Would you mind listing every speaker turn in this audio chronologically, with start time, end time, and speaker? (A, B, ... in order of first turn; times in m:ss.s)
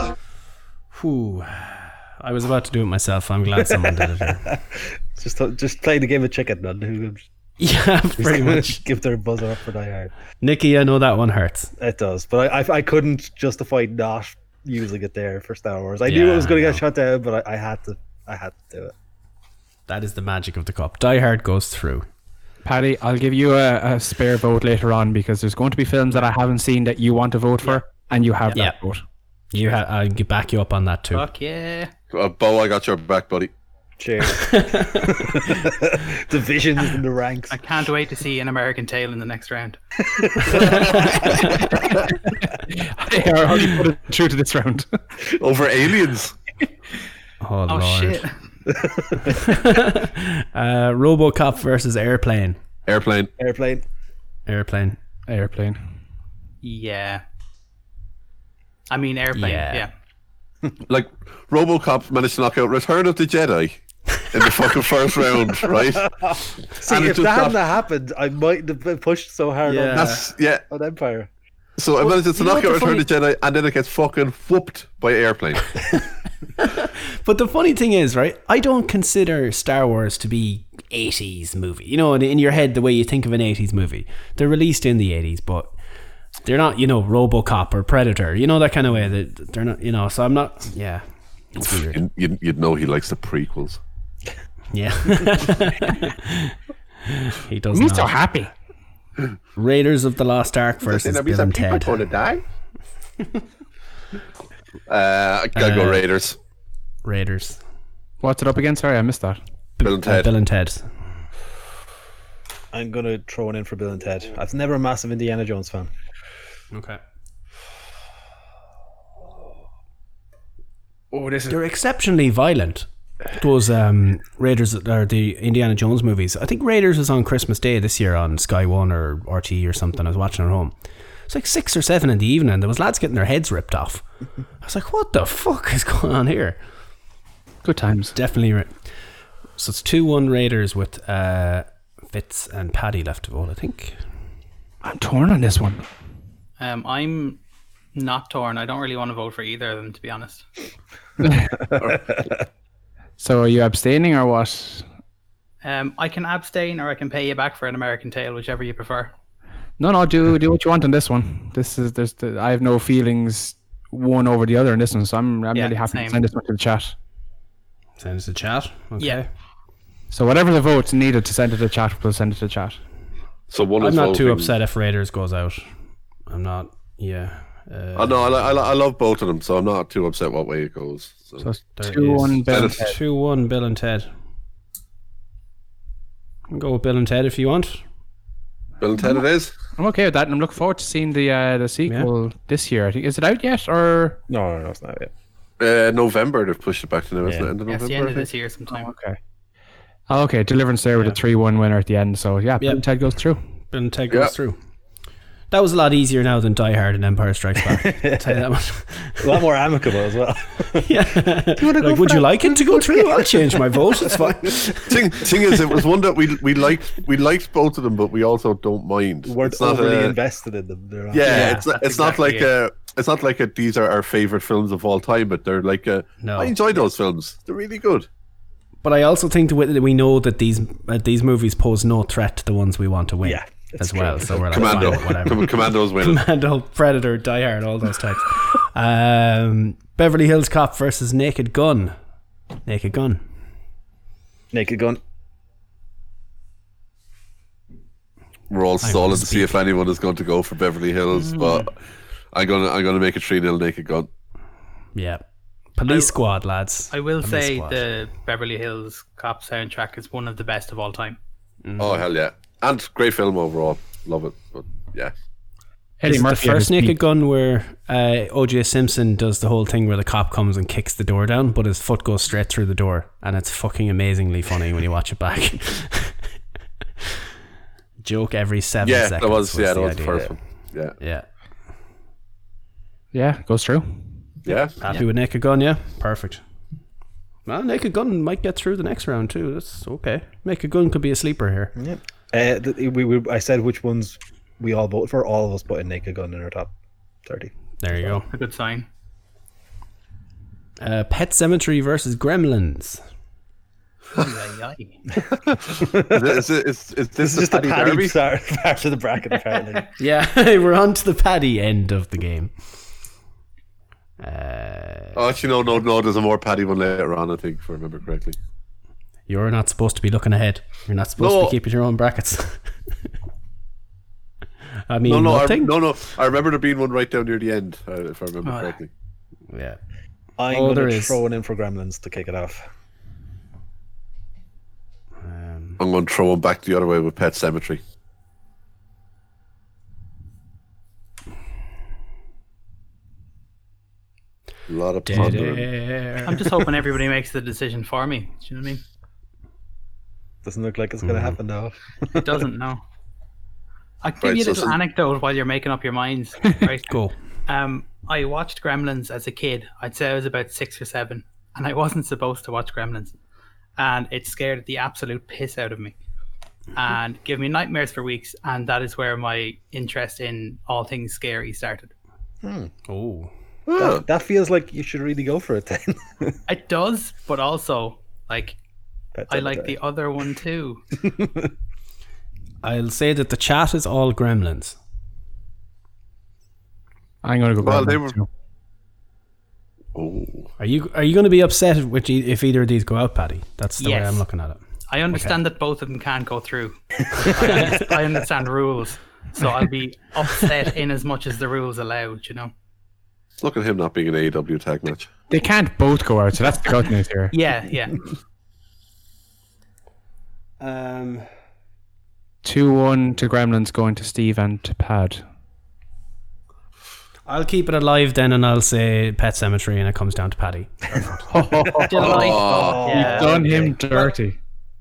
0:00.9-0:04.4 A
0:03.6-0:07.2 B
0:07.6-0:08.8 A
0:08.2-0:10.1 B
0:10.4-0:11.7 A
0:11.8-0:18.9 B
0:16.1-0:16.8 A
0:19.9-0:22.1 A
0:22.6-0:29.0 C
0:29.5-0:31.2 A
0:31.1-0:31.9 D
0:32.1-0:33.5 E
0:34.0-0:37.6 B
0:34.4-0:35.4 A
0:37.5-0:39.8 D
0:40.0-0:41.0 B
0:40.5-0:42.1 E
0:41.2-0:41.6 A
0:42.3-0:44.9 C
0:45.3-0:46.4 E
0:47.4-0:48.2 A
0:47.7-0:48.4 D
0:48.7-0:49.3 B
0:49.2-0:52.6 A
0:52.9-0:53.3 E
0:53.4-0:53.8 B
0:54.5-0:55.0 A
0:55.3-0:55.8 C
0:56.6-0:57.2 D
0:58.9-0:59.9 D
0:59.4-0:59.9 A
1:00.9-1:06.3 E
1:05.8-1:11.3 B
1:06.9-1:07.6 E
1:09.6-1:10.3 A
1:09.9-1:10.6 E
1:11.8-1:16.0 E
1:12.0-1:13.1 A
1:16.6-1:25.7 A
1:26.4-1:32.0 A
1:31.9-1:33.8 E
1:34.7-1:38.2 A
1:37.7-1:38.5 C
1:39.6-1:42.0 A
1:40.8-1:42.4 E
1:44.9-1:46.4 E
1:45.6-1:46.0 A
1:47.0-1:47.6 A
1:48.2-1:49.4 C
1:49.8-1:50.9 A
1:49.8-1:50.3 E
1:52.7-1:55.9 B
1:56.7-1:57.0 A
2:01.1-2:01.5 C
2:01.5-2:10.7 A
2:11.3-2:14.1 A
2:14.6-2:16.6 A
2:17.6-2:18.2 C
2:18.1-2:18.9 A
2:19.6-2:24.0 A
2:24.8-2:25.8 C
2:26.6-2:27.4 D
2:28.0-2:30.5 D
2:31.2-2:31.6 C
2:31.9-2:32.3 B
2:33.2-2:34.9 C
2:35.6-2:39.1 D
2:39.8-2:46.9 C
2:45.5-2:46.2 D
2:48.0-2:49.3 A
2:50.1-2:52.8 C
2:53.5-2:54.5 E
2:53.8-2:55.7 A
2:56.3-2:58.5 A
2:58.0-3:01.5 E
3:01.4-3:03.0 C
3:01.8-3:04.1 A
3:02.5-3:02.9 E
3:06.5-3:07.8 A
3:08.8-3:09.6 E
3:09.8-3:14.2 C
3:14.3-3:15.1 B
3:15.6-3:18.3 E
3:17.7-3:18.9 D
3:18.7-3:19.2 C
3:20.1-3:23.4 C
3:23.7-3:24.6 A
3:25.5-3:29.4 A
3:27.6-3:28.4 B
3:29.2-3:30.9 B
3:30.8-3:35.7 A
3:31.6-3:34.5 B
3:34.9-3:40.2 E
3:39.3-3:41.5 B
3:41.1-3:48.1 E
3:41.2-3:41.6 A
3:41.3-3:42.5 D
3:46.2-3:46.5 A
3:48.8-4:02.0 A
3:53.2-3:55.2 B
3:54.5-3:56.2 E
4:02.6-4:03.2 A
4:04.5-4:05.0 B
4:08.5-4:11.8 E
4:08.8-4:09.6 A
4:11.1-4:11.7 D
4:12.3-4:14.1 E
4:15.0-4:15.2 A
4:15.8-4:17.8 A
4:15.9-4:16.1 D
4:16.9-4:21.2 D
4:21.6-4:22.0 A
4:21.8-4:25.1 E
4:26.0-4:27.0 C
4:26.0-4:36.2 A
4:38.0-4:40.4 A
4:38.8-4:41.0 E
4:41.0-4:41.3 A
4:43.1-4:44.1 C
4:44.4-4:44.8 E
4:44.8-4:46.4 A
4:47.5-4:51.7 A
4:51.8-4:56.7 B
4:57.2-4:57.5 B
4:57.8-4:58.3 A
4:58.3-4:58.9 D
5:00.8-5:03.0 A
5:04.2-5:05.0 D
5:05.5-5:06.4 B
5:06.0-5:08.2 E
5:07.2-5:09.9 B
5:10.0-5:12.6 A
5:14.2-5:15.2 A
5:15.2-5:18.4 E
5:19.3-5:22.6 A
5:21.2-5:21.6 E
5:24.9-5:25.8 A
5:25.0-5:28.9 E
5:28.4-5:28.8 D
5:29.5-5:29.8 A
5:30.4-5:32.7 B
5:30.5-5:31.2 A
5:35.2-5:35.8 A
5:35.8-5:37.8 E
5:44.7-5:45.7 E
5:45.1-5:46.6 A
5:46.2-5:48.8 D
5:50.4-5:52.4 B
5:51.0-5:51.4 A
5:52.1-5:52.8 D
5:54.0-6:03.2 D
5:54.2-5:54.8 E
5:56.9-5:57.1 A
6:03.8-6:06.0 D
6:06.8-6:11.9 D
6:12.4-6:12.7 B
6:12.9-6:13.3 A
6:13.7-6:14.0 E
6:13.8-6:16.4 B
6:16.5-6:18.6 D
6:19.2-6:19.8 B
6:19.3-6:20.8 D
6:21.0-6:21.5 B
6:22.6-6:24.8 A
6:27.2-6:28.3 C
6:27.6-6:28.2 E
6:30.0-6:30.5 E
6:30.6-6:34.6 A
6:33.8-6:34.2 D
6:34.9-6:42.5 D
6:35.1-6:35.4 A
6:37.2-6:37.9 A
6:43.4-6:45.1 E
6:45.3-6:47.3 C
6:47.3-6:48.0 D
6:50.6-6:51.3 A
6:52.4-6:55.2 C
6:57.3-7:01.1 A
7:01.2-7:04.4 C
7:01.8-7:03.5 D
7:01.8-7:03.8 B
7:02.0-7:02.9 E